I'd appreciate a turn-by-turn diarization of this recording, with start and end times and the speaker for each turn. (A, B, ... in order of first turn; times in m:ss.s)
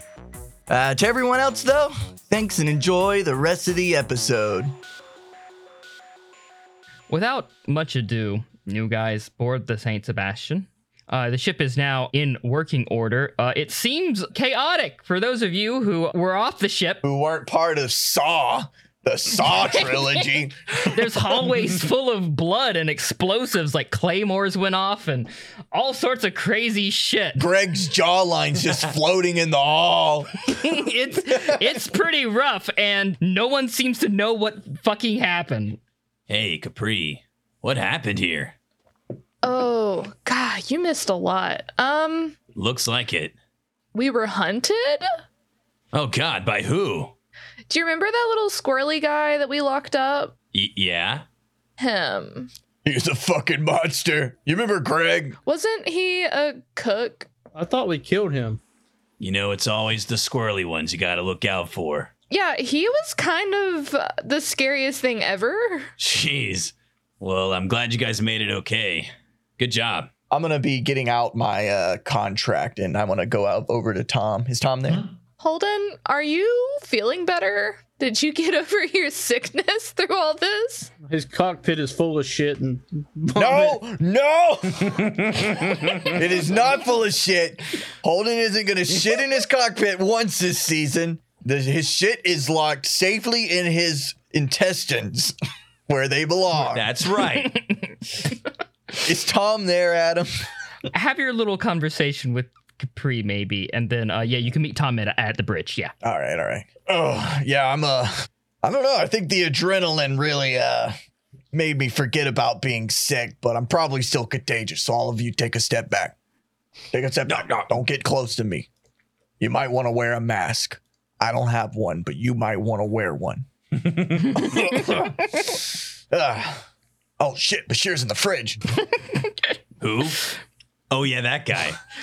0:00.7-0:04.7 A
0:07.1-0:17.0 B
0:17.0-0:21.2 A
0:20.8-0:27.5 B
0:27.4-0:30.5 A
0:30.5-0:35.8 B
0:36.3-0:38.5 C
0:39.4-0:42.3 D
0:42.6-0:43.3 C
0:43.9-0:45.0 D
0:45.9-0:47.1 C
0:47.7-0:50.3 D
0:50.5-0:51.2 C
0:51.8-0:52.5 D
0:52.8-0:55.4 A
0:55.4-0:57.3 D
0:57.5-0:58.6 E
0:59.2-1:02.1 C
1:02.3-1:05.9 D
1:06.0-1:10.1 C
1:10.3-1:15.1 A
1:15.4-1:20.9 D
1:21.0-1:23.8 E
1:23.3-1:35.3 A
1:24.9-1:26.1 C
1:35.9-1:36.9 A
1:36.6-1:37.6 C
1:39.0-1:40.3 A
1:40.9-1:45.9 B
1:46.0-1:48.1 A
1:48.6-1:50.9 A
1:51.5-1:56.1 A
1:56.9-1:58.7 A
1:57.3-1:57.7 C
1:59.4-2:03.5 A
2:03.8-2:04.4 C
2:04.3-2:06.6 A
2:07.2-2:08.6 A
2:09.8-2:10.2 C
2:10.9-2:11.8 C